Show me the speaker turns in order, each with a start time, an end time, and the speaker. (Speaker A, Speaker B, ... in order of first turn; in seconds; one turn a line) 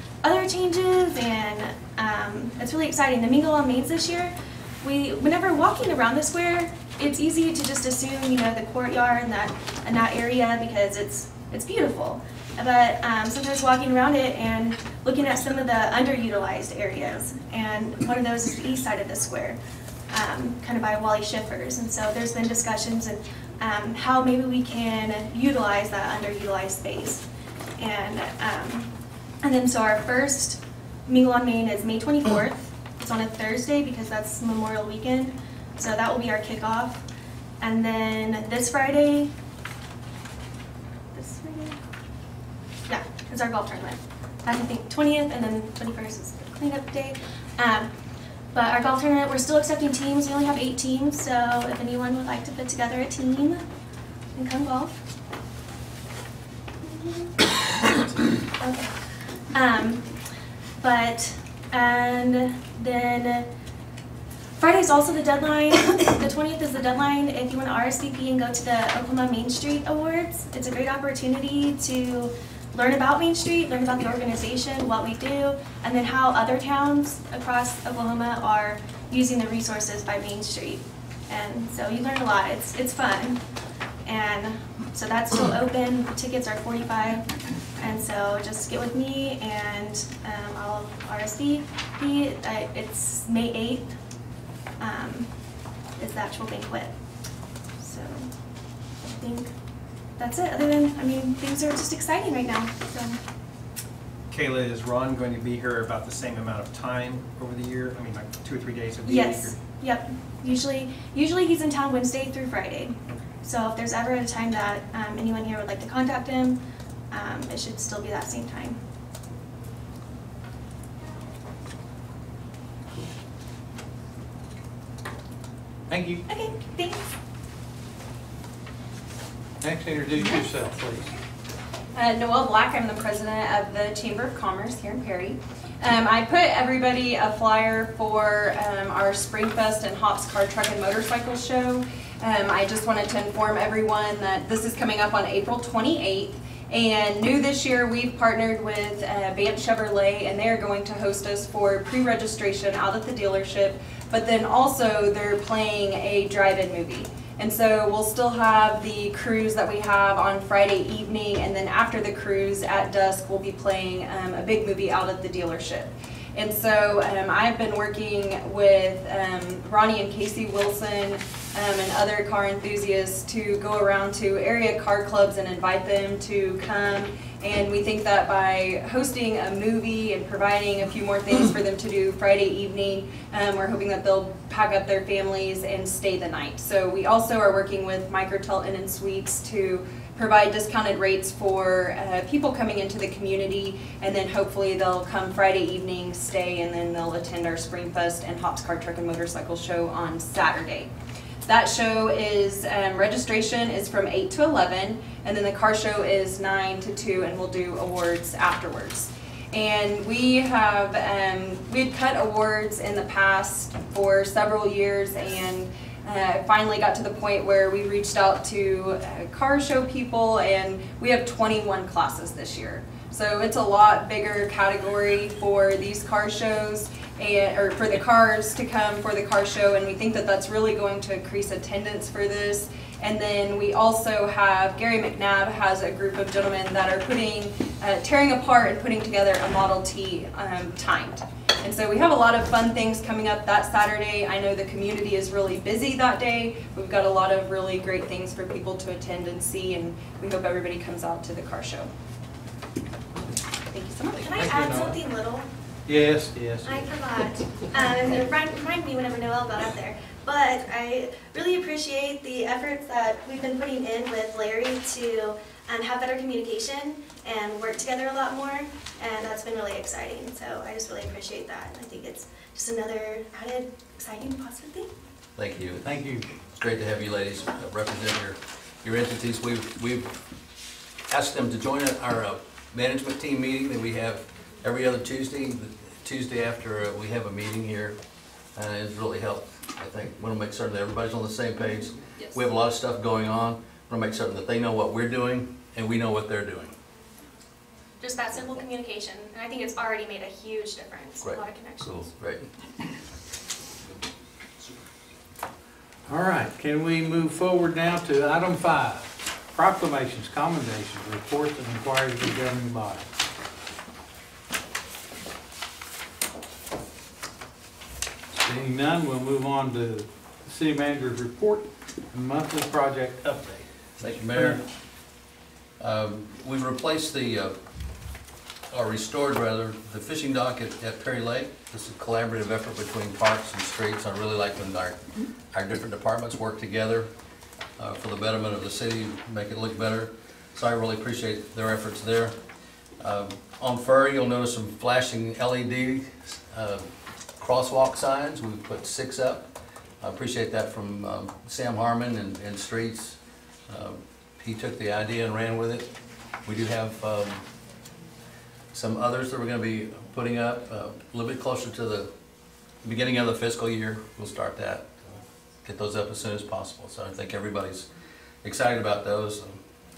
Speaker A: 0.2-19.6
Speaker A: 20.1-27.2
Speaker A: 27.8-37.0
Speaker A: 37.6-39.3
Speaker A: 41.1-41.8
Speaker A: 42.9-47.9
Speaker A: 48.5-53.6
Speaker A: 54.4-55.0
Speaker A: 56.8-57.6
Speaker A: 58.5-60.1
Speaker A: 60.8-63.5
Speaker A: 64.6-83.4
Speaker A: 84.0-94.0
Speaker A: 94.8-95.3
Speaker A: 96.0-96.9
Speaker A: 97.8-98.3
Speaker A: 99.0-99.5
Speaker A: 100.2-103.2
Speaker B: 104.3-109.6
Speaker A: 109.0-116.6
Speaker A: 117.1-118.8
Speaker C: 125.9-126.2
Speaker A: 126.3-127.0
Speaker C: 129.6-131.1
Speaker D: 131.9-200.9
Speaker D: 201.5-251.9
Speaker D: 253.7-254.2
Speaker A: 254.1-255.5
Speaker C: 254.3-255.0
Speaker C: 255.9-256.9
Speaker A: 256.6-274.9
Speaker E: 275.4-280.1
Speaker C: 275.8-276.3
Speaker E: 281.1-287.9
Speaker E: 288.6-296.7
Speaker A: 298.0-302.1
Speaker E: 301.2-302.5
Speaker C: 306.1-313.1
Speaker C: 318.3-324.6
Speaker E: 324.0-324.6
Speaker E: 325.8-327.6
Speaker E: 328.7-337.1
Speaker E: 337.8-342.4
Speaker E: 343.0-349.5
Speaker E: 350.0-355.9
Speaker E: 356.4-357.4
Speaker E: 358.7-362.1
Speaker E: 362.8-364.9
Speaker E: 365.6-367.9
Speaker E: 368.4-369.6